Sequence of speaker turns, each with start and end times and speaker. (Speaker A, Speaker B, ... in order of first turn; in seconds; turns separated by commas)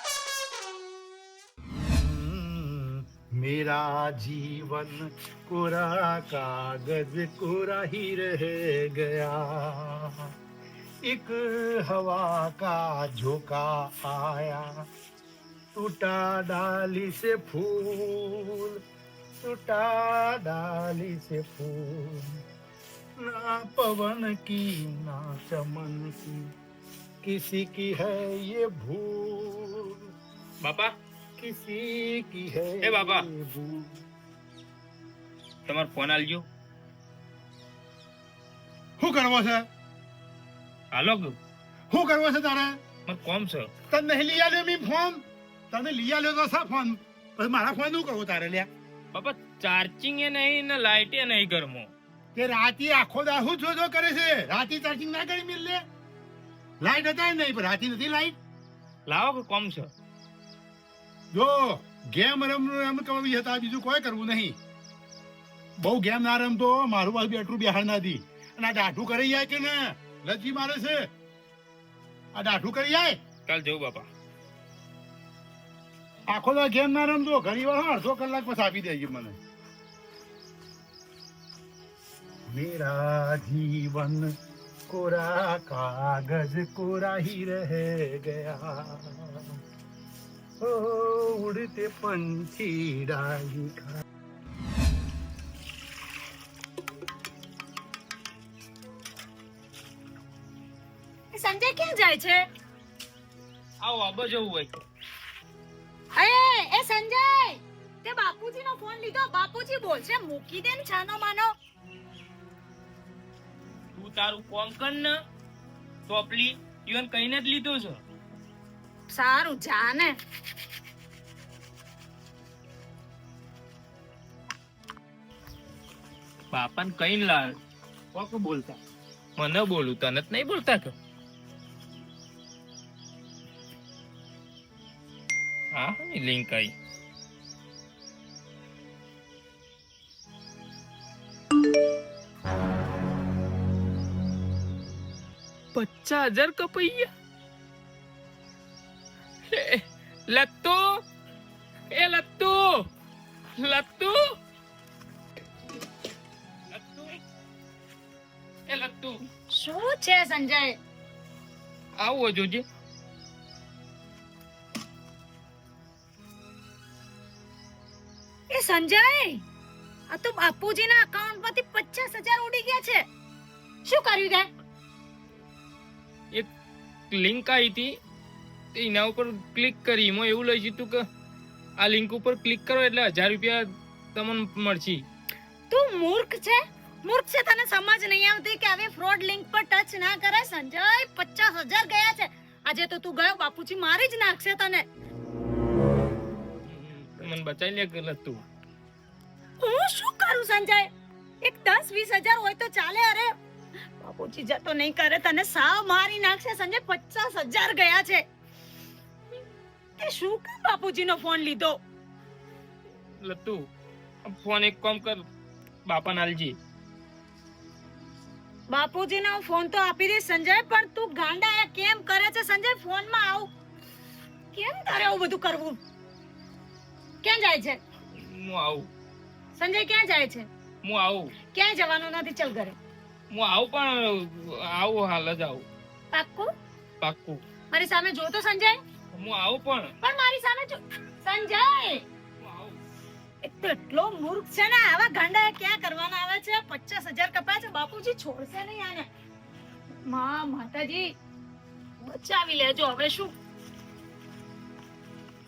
Speaker A: 1.7-10.3, Speaker A: 11.0-14.8, Speaker A: 15.7-18.8, Speaker A: 19.4-22.4, Speaker A: 23.2-26.4, Speaker A: 27.2-30.0, Speaker B: 30.6-30.9, Speaker A: 31.4-34.0, Speaker B: 32.8-33.3, Speaker B: 35.7-36.5, Speaker A: 39.0-39.7, Speaker B: 40.9-41.3, Speaker A: 41.9-42.8, Speaker B: 43.0-43.7, Speaker A: 43.9-48.7, Speaker B: 49.1-51.9, Speaker A: 52.3-55.8, Speaker A: 56.8-58.4, Speaker B: 59.1-59.9, Speaker A: 61.3-64.6, Speaker A: 65.8-71.1, Speaker A: 72.3-73.2, Speaker B: 73.5-74.0, Speaker A: 76.3-79.4, Speaker A: 82.5-84.3, Speaker A: 84.9-89.6, Speaker A: 90.6-94.0, Speaker C: 101.3-102.4, Speaker B: 103.8-104.8, Speaker C: 106.1-111.5, Speaker B: 113.9-115.1, Speaker B: 116.1-118.0, Speaker C: 119.1-120.1, Speaker B: 126.5-127.5, Speaker B: 128.1-128.8, Speaker B: 129.3-130.9, Speaker B: 135.7-136.7, Speaker B: 145.7-147.1, Speaker B: 149.5-150.8, Speaker B: 151.9-152.9, Speaker B: 153.6-154.2, Speaker B: 156.7-157.2, Speaker B: 158.7-159.2, Speaker C: 159.5-160.8, Speaker B: 162.0-162.6, Speaker C: 168.5-169.4, Speaker C: 170.1-173.0, Speaker C: 173.8-174.5, Speaker B: 177.1-177.9, Speaker B: 178.7-181.0, Speaker B: 181.8-185.0, Speaker C: 185.7-194.8, Speaker B: 196.6-198.4, Speaker C: 199.6-200.9, Speaker C: 201.4-203.3, Speaker C: 204.0-208.2, Speaker C: 210.0-211.8, Speaker B: 213.2-213.7, Speaker B: 214.3-215.2, Speaker B: 215.9-216.5, Speaker C: 218.7-223.5, Speaker C: 224.5-225.8, Speaker C: 227.2-227.8, Speaker B: 228.1-228.9, Speaker C: 229.6-230.5, Speaker B: 230.8-231.3, Speaker C: 231.5-232.8, Speaker B: 233.3-235.7, Speaker C: 236.1-236.5, Speaker B: 237.0-237.4, Speaker C: 237.7-238.8, Speaker B: 239.1-239.9, Speaker C: 240.0-242.0, Speaker B: 242.4-242.8, Speaker C: 243.4-249.1, Speaker C: 250.1-251.1, Speaker C: 252.0-253.3